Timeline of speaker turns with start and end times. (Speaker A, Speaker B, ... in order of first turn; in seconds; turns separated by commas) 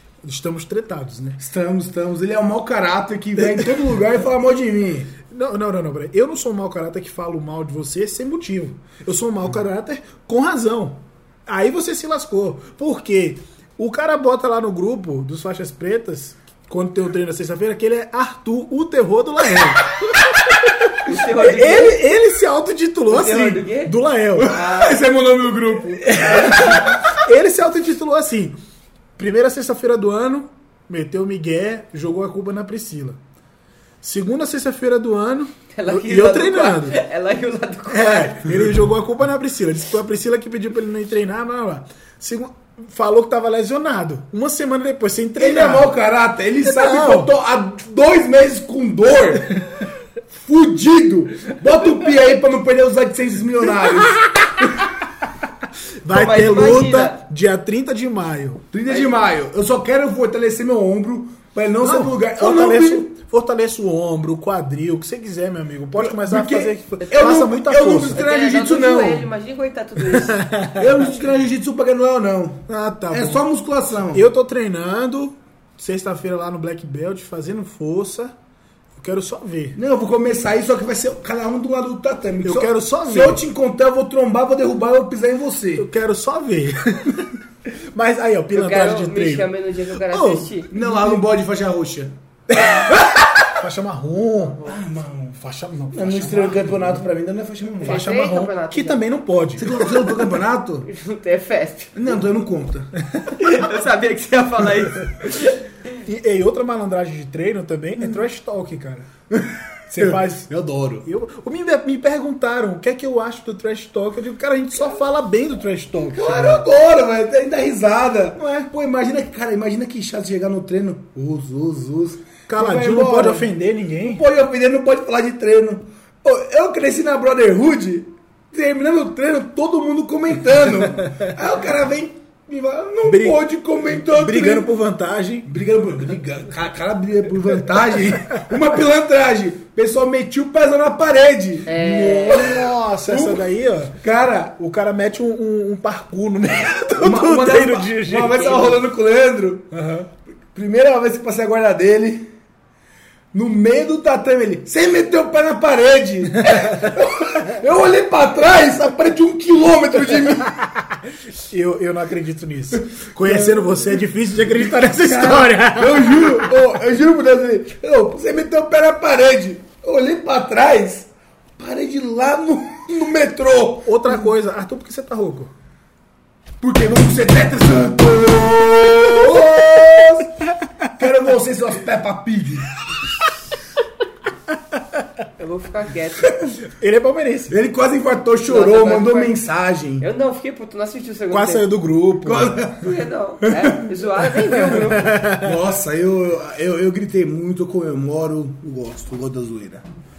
Speaker A: 0.2-1.4, Speaker B: 1.4-5.1, Speaker A: 3.4-3.8, Speaker A: 5.3-19.9, Speaker A: 20.7-24.5, Speaker C: 21.1-22.0, Speaker C: 23.1-25.0, Speaker B: 24.4-26.9, Speaker A: 26.0-28.6, Speaker A: 29.2-33.2, Speaker A: 34.0-37.0, Speaker C: 35.7-38.5, Speaker A: 37.9-45.9, Speaker B: 45.4-49.6, Speaker A: 46.6-47.3, Speaker B: 50.3-54.7, Speaker A: 56.0-58.7, Speaker C: 56.1-57.2, Speaker B: 58.7-63.1, Speaker A: 61.8-68.2, Speaker B: 66.0-69.3, Speaker C: 67.3-70.4, Speaker A: 70.0-71.0, Speaker B: 70.8-74.2, Speaker A: 72.7-73.4, Speaker A: 74.1-78.3, Speaker A: 79.0-79.8, Speaker B: 79.8-85.9, Speaker A: 82.4-83.4, Speaker A: 85.8-91.2, Speaker C: 88.5-90.7, Speaker B: 90.7-92.1, Speaker A: 92.6-92.9, Speaker A: 93.5-94.7, Speaker B: 94.6-95.4, Speaker A: 95.4-97.0, Speaker B: 95.9-98.0, Speaker C: 97.8-99.0, Speaker A: 97.8-99.9, Speaker B: 99.6-100.9, Speaker C: 100.9-102.1, Speaker B: 102.0-102.9, Speaker C: 103.4-105.6, Speaker A: 106.0-109.1, Speaker B: 109.3-111.1, Speaker A: 109.9-110.5, Speaker A: 111.0-116.7, Speaker B: 116.1-123.5, Speaker A: 118.4-118.7, Speaker A: 122.5-124.2, Speaker B: 124.0-134.7, Speaker A: 133.1-135.5, Speaker B: 135.4-143.5, Speaker C: 141.7-142.5, Speaker A: 141.7-144.0, Speaker B: 144.0-144.6, Speaker A: 144.6-148.6, Speaker B: 147.0-149.7, Speaker C: 148.3-148.8, Speaker A: 149.7-150.1, Speaker B: 150.5-152.3, Speaker B: 153.3-160.5, Speaker A: 156.4-156.9, Speaker A: 160.5-166.5, Speaker B: 163.2-163.9, Speaker B: 164.5-174.2, Speaker A: 173.8-175.5, Speaker B: 176.6-180.4, Speaker B: 180.9-182.7, Speaker C: 185.4-186.3, Speaker A: 186.6-187.6, Speaker B: 187.5-190.1, Speaker C: 188.5-189.4, Speaker C: 190.0-191.7, Speaker A: 191.3-192.8, Speaker B: 192.2-192.9, Speaker C: 192.8-195.2, Speaker B: 193.4-193.9, Speaker A: 194.5-195.6, Speaker B: 195.4-199.8